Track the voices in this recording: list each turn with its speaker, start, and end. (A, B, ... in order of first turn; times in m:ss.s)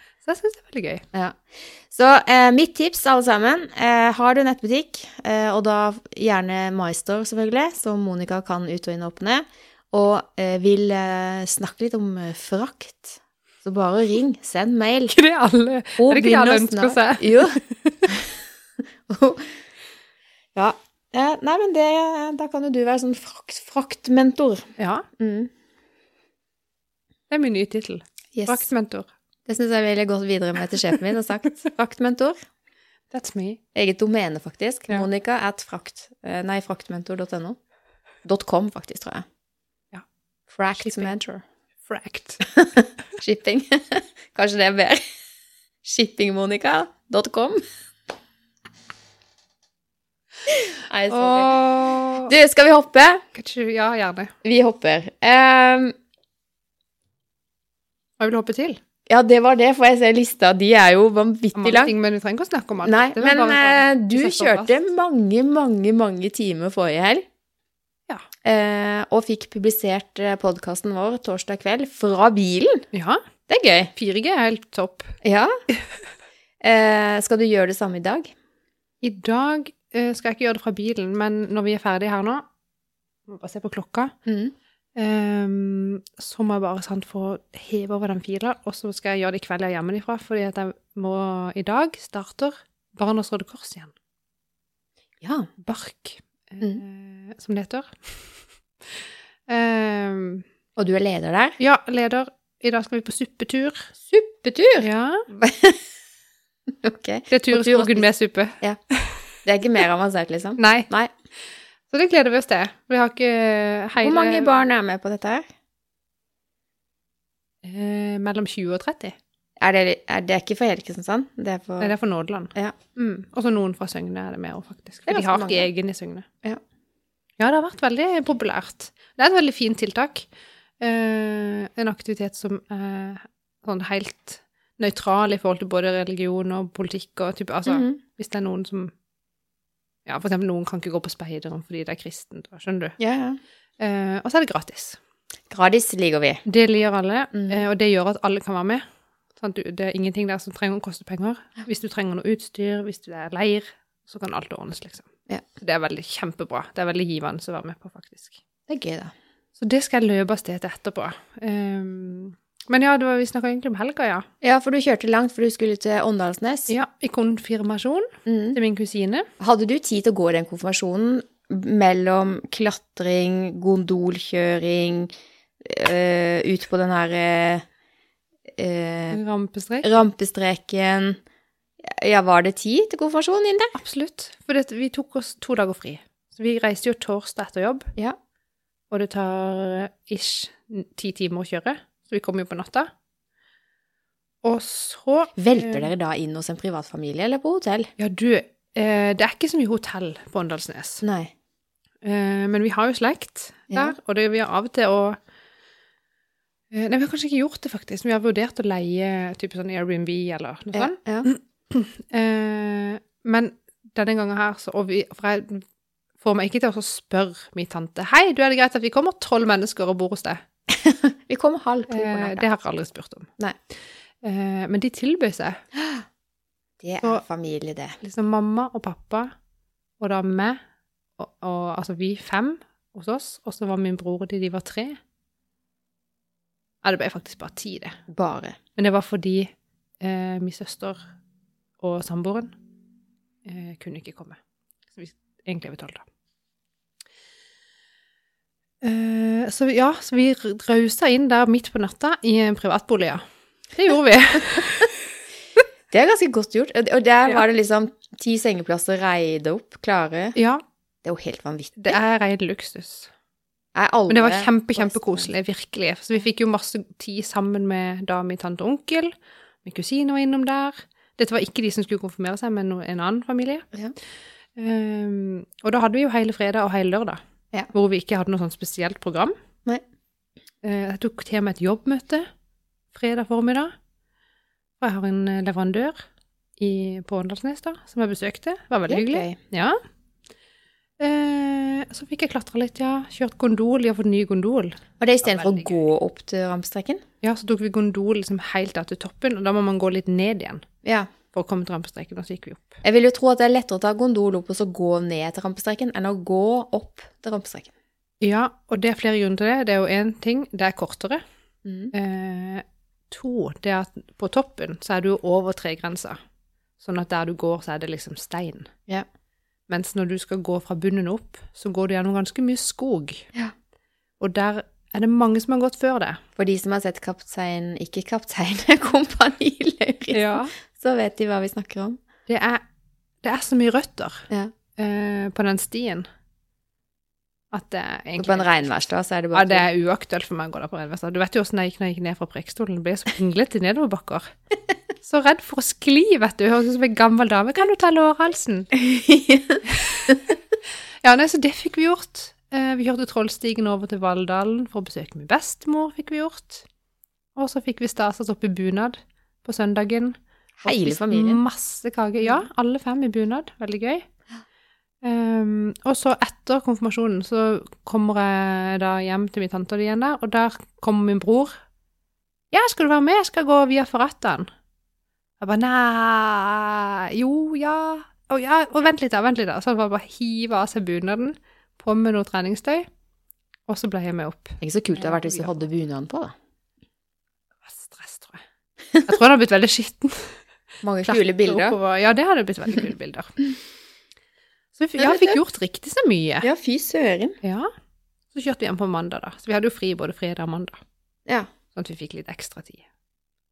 0:00.2-0:01.0 A
0:01.1-0:15.2 B
0:15.1-0:18.1 A
0:16.0-0:18.3 B
0:19.1-0:19.6 B
0:20.5-0:24.7 B
0:24.8-0:25.0 A
0:25.2-0:25.5 B
0:27.3-0:29.1 A
0:28.3-0:28.7 B
0:29.5-0:32.3 B
0:33.1-0:33.6 A
0:33.7-0:37.6 B
0:38.2-0:39.2 B
0:40.5-0:41.4 B
0:40.7-0:41.1 A
0:41.8-0:42.4 A
0:42.4-0:45.0 B
0:45.8-0:47.6 B
0:50.5-0:51.6 B
0:51.1-0:52.3 A
0:52.2-0:53.2 B
0:53.3-0:54.3 A
0:54.4-0:55.9 B
0:58.2-0:58.8 A
0:59.1-1:01.9 B
1:01.5-1:04.7 A
1:02.8-1:07.2 B
1:08.4-1:12.8 B
1:12.9-1:13.2 A
1:13.5-1:13.9 B
1:13.9-1:15.1 A
1:15.2-1:15.5 B
1:16.6-1:18.3 B
1:19.0-1:22.4 A
1:23.3-1:24.1 A
1:24.2-1:24.5 B
1:25.0-1:33.9 A
1:35.2-1:35.5 B
1:35.6-1:38.3 A
1:38.9-1:40.4 A
1:40.8-1:41.6 B
1:41.6-1:43.9 A
1:44.0-1:45.8 B
1:44.8-1:45.3 A
1:46.7-1:48.1 B
1:47.3-1:49.2 A
1:49.4-1:51.1 B
1:50.6-1:50.9 A
1:51.9-1:54.5 A
1:54.0-1:55.4 B
1:57.6-1:59.1 A
1:59.6-2:01.9 B
2:01.8-2:06.2 A
2:05.1-2:05.7 B
2:07.4-2:10.3 A
2:10.8-2:18.9 A
2:17.7-2:18.0 B
2:20.0-2:23.0 A
2:23.0-2:23.4 B
2:23.8-2:25.0 A
2:25.5-2:26.4 B
2:26.4-2:28.8 A
2:27.3-2:27.6 B
2:29.4-2:38.4 A
2:38.7-2:39.1 B
2:39.6-2:44.3 A
2:44.4-2:46.7 B
2:46.7-2:49.3 A
2:48.2-2:48.6 B
2:49.4-2:57.6 B
2:58.5-2:59.2 B
2:59.1-3:00.0 A
2:59.8-3:01.2 B
3:01.8-3:03.8 B
3:03.7-3:07.9 A
3:08.9-3:12.9 A
3:14.4-3:15.9 A
3:15.4-3:17.9 B
3:18.0-3:21.0 A
3:21.0-3:21.3 B
3:22.0-3:25.2 A
3:23.7-3:24.0 B
3:26.7-3:35.6 A
3:30.7-3:31.3 B
3:36.2-3:40.4 A
3:40.7-3:42.4 B
3:41.9-3:43.3 A
3:44.2-3:45.6 A
3:45.8-3:46.0 B
3:46.8-3:48.0 B
3:48.0-3:49.3 A
3:50.0-3:50.6 A
3:51.2-3:55.0 A
3:56.8-3:58.0 A
3:58.1-3:58.6 B
3:58.8-4:01.0 A
4:01.8-4:02.5 A
4:03.4-4:04.4 A
4:04.9-4:06.0 A
4:08.8-4:15.0 A
4:15.9-4:20.4 B
4:20.4-4:20.6 A
4:21.0-4:22.0 B
4:21.8-4:23.1 A
4:23.7-4:25.3 B
4:24.1-4:29.1 A
4:29.6-4:33.7 A
4:34.6-4:37.2 A
4:37.7-4:39.3 A
4:40.6-4:42.3 A
4:42.9-4:43.7 A
4:44.8-4:46.0 A
4:46.6-4:49.8 A
4:48.9-4:49.4 B
4:51.0-4:55.8 A
4:55.0-4:57.0 B
4:57.2-5:00.6 A
5:00.8-5:01.1 B
5:01.3-5:02.8 A
5:02.8-5:07.7 B
5:08.2-5:11.2 A
5:11.6-5:11.9 B
5:11.9-5:16.2 A
5:16.8-5:18.7 A
5:19.7-5:23.3 A
5:24.2-5:26.2 A
5:26.4-5:32.0 B
5:30.1-5:30.5 A
5:32.3-5:32.6 A
5:33.2-5:36.0 A
5:37.5-5:38.7 A
5:38.2-5:39.6 B
5:39.3-5:44.3 A
5:45.0-5:48.7 A
5:48.7-5:50.2 B
5:49.7-5:50.3 A
5:51.0-5:56.6 A
5:57.4-6:04.1 A
6:00.6-6:01.4 B
6:05.0-6:11.6 A
6:12.5-6:14.5 A
6:15.4-6:22.9 A
6:23.7-6:25.6 A
6:24.6-6:26.3 B
6:27.6-6:28.4 A
6:29.0-6:30.4 A
6:30.8-6:31.8 B
6:31.0-6:33.4 A
6:34.8-6:36.5 A
6:35.0-6:35.4 B
6:36.4-6:37.4 B
6:37.4-6:37.7 A
6:38.3-6:40.8 A
6:41.7-6:42.8 A